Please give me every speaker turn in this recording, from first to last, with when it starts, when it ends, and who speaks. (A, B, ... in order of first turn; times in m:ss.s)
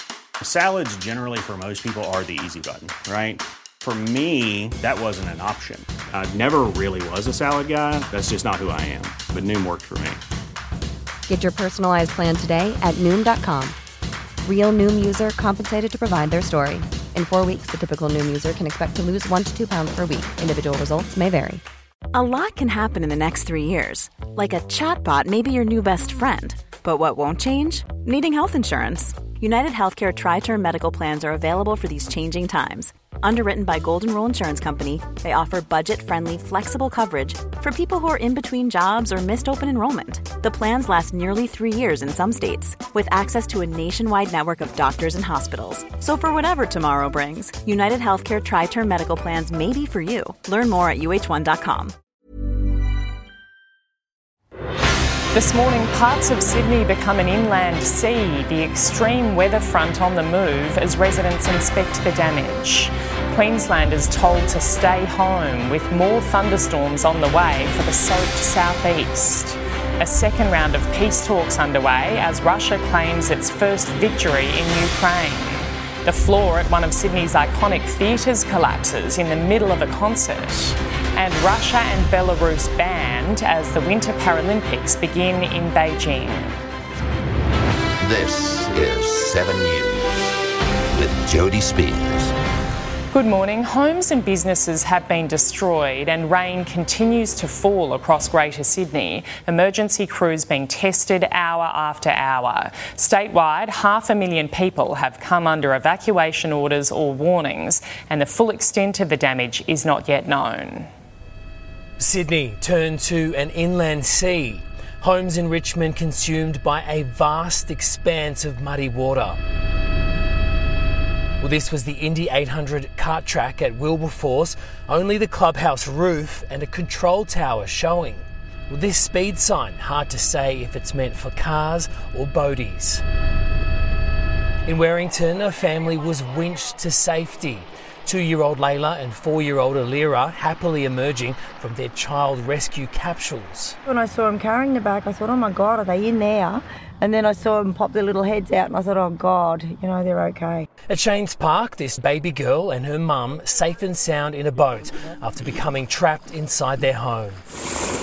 0:00.4-0:10.2 A
0:11.3-0:13.7 B
0:14.4-0:21.6 B
0:22.1-0:51.9 C
0:55.3-1:26.6 D
1:28.0-1:30.0 E
1:30.9-1:32.3 E
1:33.1-1:50.9 D
1:52.0-1:59.4 F
2:01.4-2:13.0 F
2:14.6-2:23.8 F
2:23.8-2:30.6 G
2:30.9-2:37.4 F